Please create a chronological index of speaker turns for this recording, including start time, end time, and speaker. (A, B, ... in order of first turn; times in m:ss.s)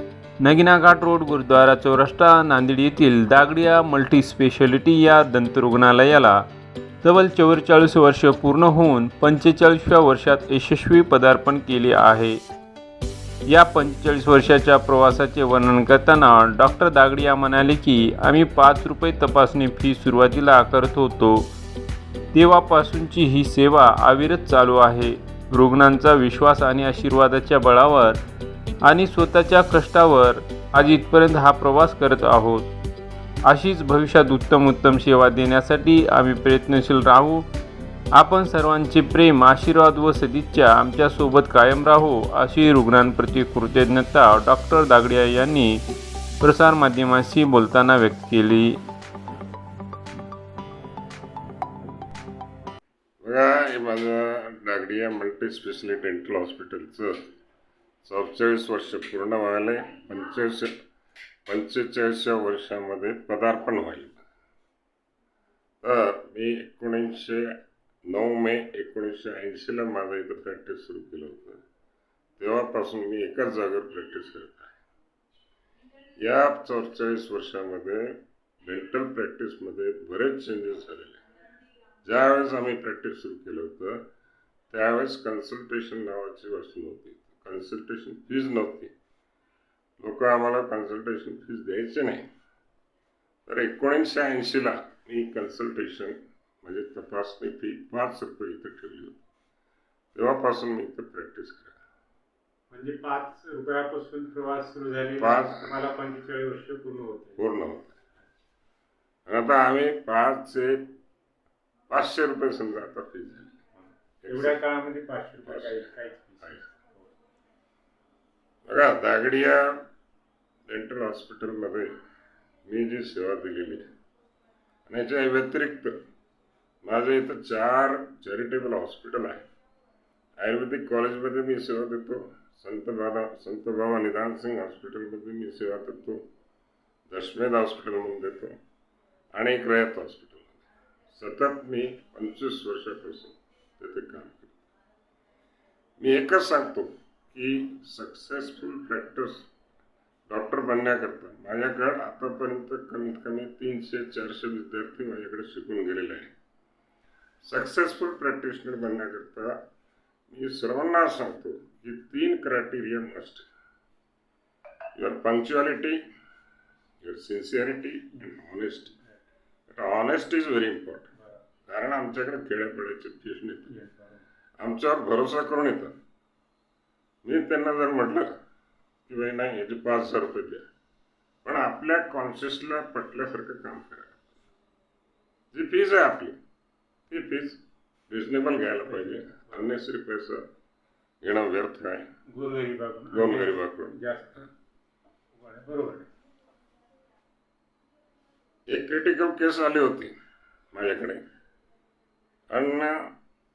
0:00.4-0:06.4 A
0:07.0-0:12.4 A
0:13.5-0:21.5 A
0:22.3-0:28.2 A
0:28.8-0:32.7 A
0:33.4-0:37.5 A
0:38.1-0:45.8 A
0:46.4-0:48.8 A
0:53.2-0:57.2 B
0:58.0-1:00.7 B
1:01.4-1:04.2 B
1:05.8-1:07.5 B
1:08.0-1:11.6 B
1:12.4-1:14.7 B
1:16.2-1:21.2 B
1:22.0-1:24.0 B
1:24.7-1:28.9 B
1:30.0-1:32.2 B
1:33.4-1:39.2 B
1:40.1-1:41.8 B
1:42.7-1:47.4 C
1:45.2-1:45.7 B
1:47.4-1:48.0 B
1:49.3-1:50.9 B
1:51.9-1:53.5 B
1:54.2-1:54.6 B
1:54.3-1:57.1 C
1:55.4-1:55.8 B
1:58.6-1:59.8 B
2:00.7-2:01.9 B
2:02.7-2:03.8 B
2:04.9-2:05.9 B
2:06.8-2:09.4 B
2:10.4-2:16.2 B
2:17.1-2:18.5 B
2:19.3-2:24.6 B
2:26.0-2:29.5 B
2:30.3-2:36.3 B
2:37.4-2:39.5 B
2:40.3-2:43.5 B
2:45.0-2:46.0 B
2:47.0-2:49.0 B
2:49.7-2:51.1 B
2:51.1-2:51.4 C
2:51.7-2:53.7 B
2:53.7-2:54.2 C
2:54.6-2:55.9 B
2:57.2-2:58.3 B
2:59.1-3:00.6 B
3:01.4-3:04.2 B
3:05.5-3:06.4 B
3:07.1-3:10.4 B
3:08.9-3:09.7 C
3:11.2-3:12.0 B
3:12.3-3:14.5 C
3:13.1-3:13.9 B
3:15.3-3:16.1 C
3:18.7-3:20.1 B
3:20.7-3:21.2 B
3:22.5-3:22.9 B